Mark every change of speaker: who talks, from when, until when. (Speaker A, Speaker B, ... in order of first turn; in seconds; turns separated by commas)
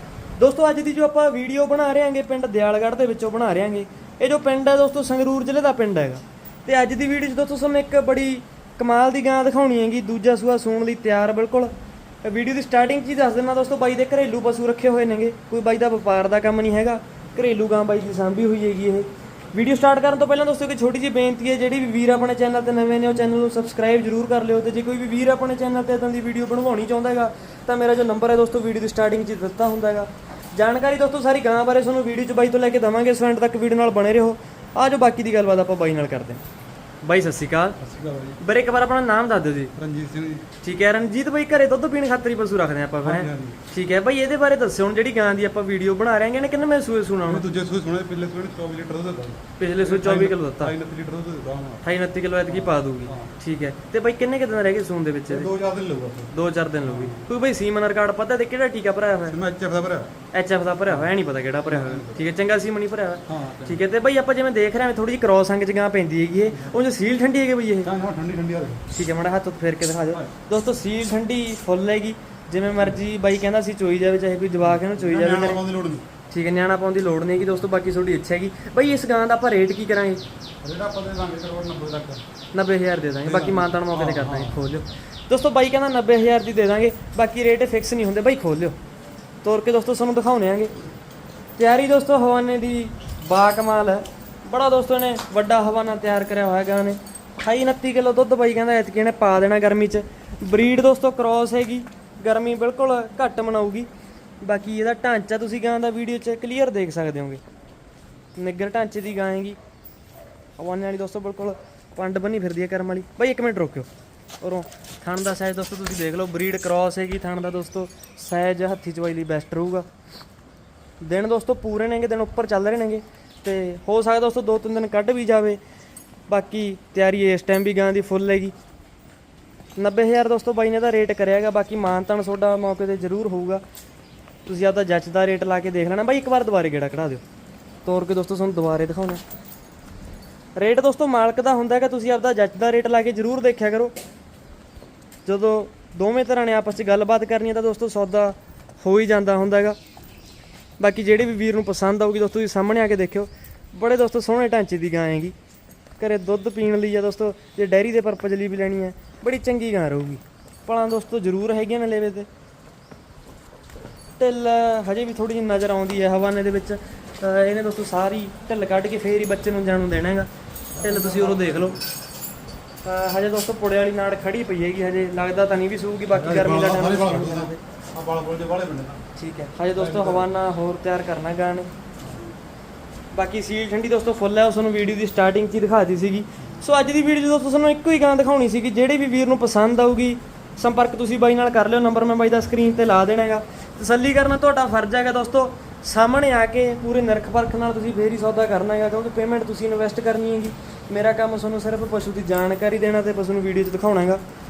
Speaker A: 0.3-11.7, Speaker A: 12.2-36.4, Speaker A: 37.0-37.8, Speaker B: 37.8-38.4, Speaker A: 38.4-39.7, Speaker B: 39.8-40.5, Speaker A: 40.6-47.5, Speaker B: 43.0-43.6, Speaker B: 47.2-51.8, Speaker A: 49.6-50.7, Speaker A: 51.8-55.5, Speaker B: 52.5-53.3, Speaker B: 55.3-57.2, Speaker A: 56.3-59.4, Speaker B: 59.3-60.1, Speaker A: 60.3-67.9, Speaker B: 61.7-62.2, Speaker B: 63.3-63.8, Speaker B: 67.8-68.8, Speaker A: 68.9-75.6, Speaker B: 74.6-76.0, Speaker A: 76.3-80.2, Speaker B: 80.6-82.2, Speaker A: 82.5-88.8, Speaker B: 83.2-84.7, Speaker A: 89.4-90.7, Speaker A: 91.6-103.9, Speaker A: 104.4-107.4, Speaker A: 108.3-109.6, Speaker A: 110.6-113.9, Speaker A: 114.4-119.9, Speaker A: 121.0-125.6, Speaker A: 126.3-128.5, Speaker A: 129.8-133.6, Speaker A: 134.4-137.2, Speaker A: 137.8-139.2, Speaker A: 140.5-143.9, Speaker A: 145.2-149.8, Speaker A: 150.8-155.3, Speaker A: 156.0-162.3, Speaker A: 164.2-171.8, Speaker B: 170.8-171.8, Speaker A: 172.8-177.6, Speaker B: 176.1-179.0, Speaker A: 179.1-181.7, Speaker B: 179.7-180.3, Speaker B: 182.0-182.3, Speaker A: 183.1-204.2